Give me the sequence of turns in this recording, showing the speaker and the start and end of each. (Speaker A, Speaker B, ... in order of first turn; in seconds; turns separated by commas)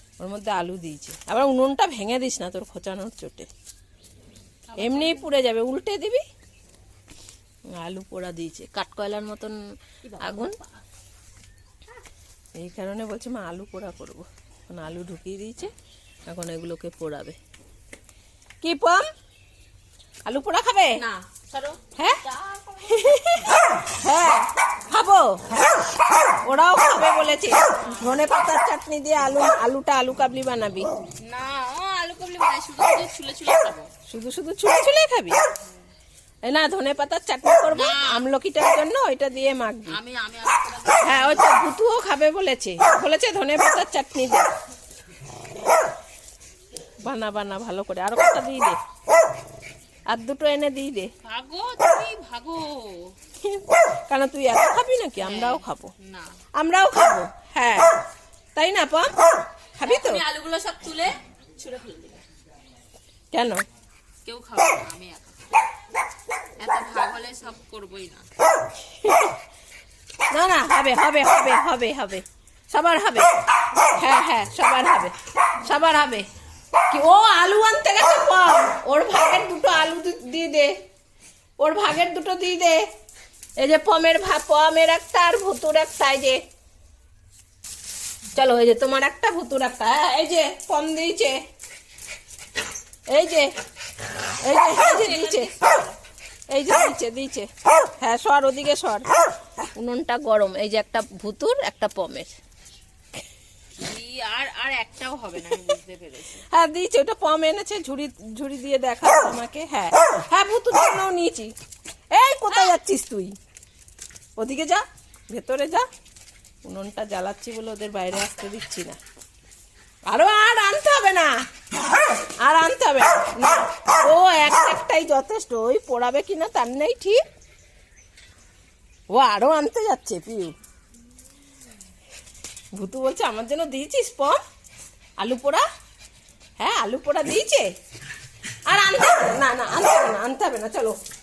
Speaker A: 0.2-3.5, Speaker B: 4.7-5.3, Speaker A: 4.8-6.2, Speaker A: 7.8-9.6, Speaker B: 10.0-10.8, Speaker A: 10.2-10.6, Speaker A: 12.6-15.7, Speaker A: 16.3-17.4, Speaker A: 18.6-19.1, Speaker A: 20.3-21.0, Speaker B: 21.0-23.3, Speaker A: 22.9-25.4, Speaker A: 26.4-30.9, Speaker B: 27.9-28.2, Speaker B: 31.2-33.9, Speaker A: 34.1-35.4, Speaker A: 36.5-40.0, Speaker B: 37.7-38.2, Speaker B: 39.9-41.6, Speaker A: 41.0-44.5, Speaker A: 47.0-48.8, Speaker A: 50.1-51.1, Speaker B: 51.2-53.1, Speaker A: 53.4-55.9, Speaker B: 55.2-56.4, Speaker A: 56.6-57.9, Speaker A: 58.6-59.1, Speaker A: 59.8-60.2, Speaker B: 59.8-62.2, Speaker A: 63.3-63.6, Speaker B: 64.2-65.5, Speaker B: 66.6-68.3, Speaker A: 69.0-69.3, Speaker A: 70.3-75.1, Speaker A: 75.6-76.2, Speaker A: 76.9-80.7, Speaker A: 81.6-82.8, Speaker A: 83.6-86.4, Speaker A: 88.3-91.4, Speaker A: 93.1-93.5, Speaker A: 94.4-95.5, Speaker B: 94.7-96.0, Speaker A: 96.5-99.1, Speaker A: 99.8-102.3, Speaker B: 103.8-106.4, Speaker A: 106.5-111.5, Speaker A: 112.1-113.3, Speaker B: 112.5-112.8, Speaker A: 114.4-115.9, Speaker A: 116.7-119.0, Speaker A: 120.1-121.3, Speaker A: 122.4-127.2, Speaker A: 129.1-130.5, Speaker A: 132.7-134.4, Speaker A: 135.2-135.7, Speaker A: 136.6-137.7, Speaker A: 138.7-141.0